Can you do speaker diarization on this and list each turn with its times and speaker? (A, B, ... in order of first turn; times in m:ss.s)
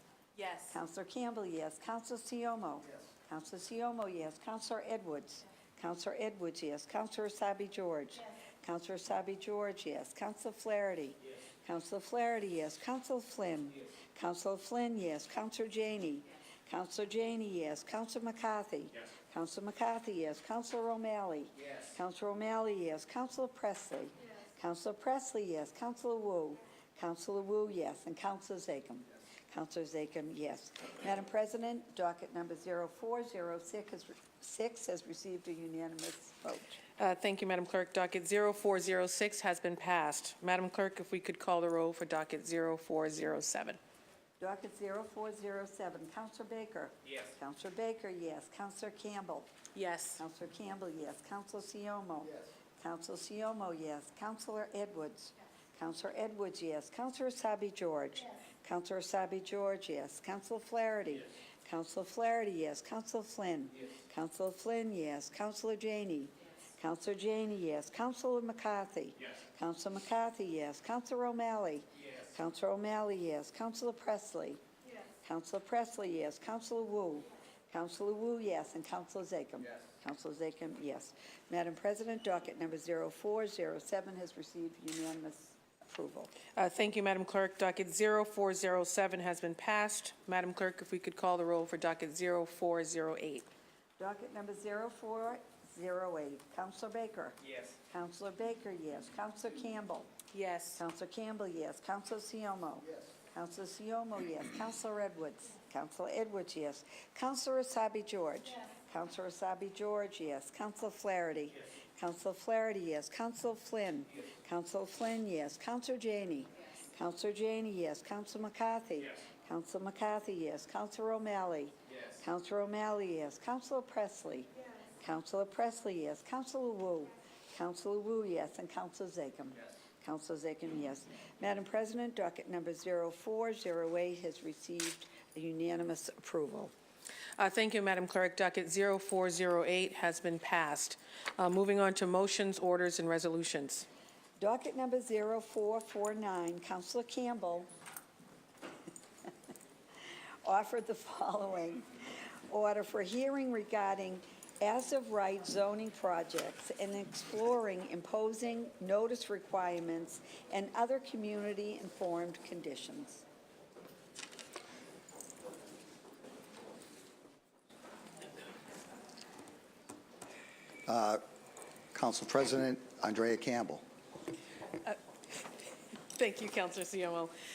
0:00.4-0:00.8 A
0:00.7-0:36.8 B
0:37.0-0:43.8 A
0:44.4-0:49.5 B
0:49.7-0:50.2 A
0:50.2-1:14.6 B
1:15.2-1:26.3 B
1:26.6-1:33.5 A
1:34.0-1:37.4 B
1:37.9-1:40.1 B
1:40.3-1:40.8 A
1:40.8-2:16.7 B
2:17.4-2:23.8 A
2:24.4-2:27.7 B
2:30.4-2:31.9 B
2:32.5-2:43.2 B
2:50.9-2:51.2 C
2:51.9-2:53.8 C
2:56.1-2:57.3 A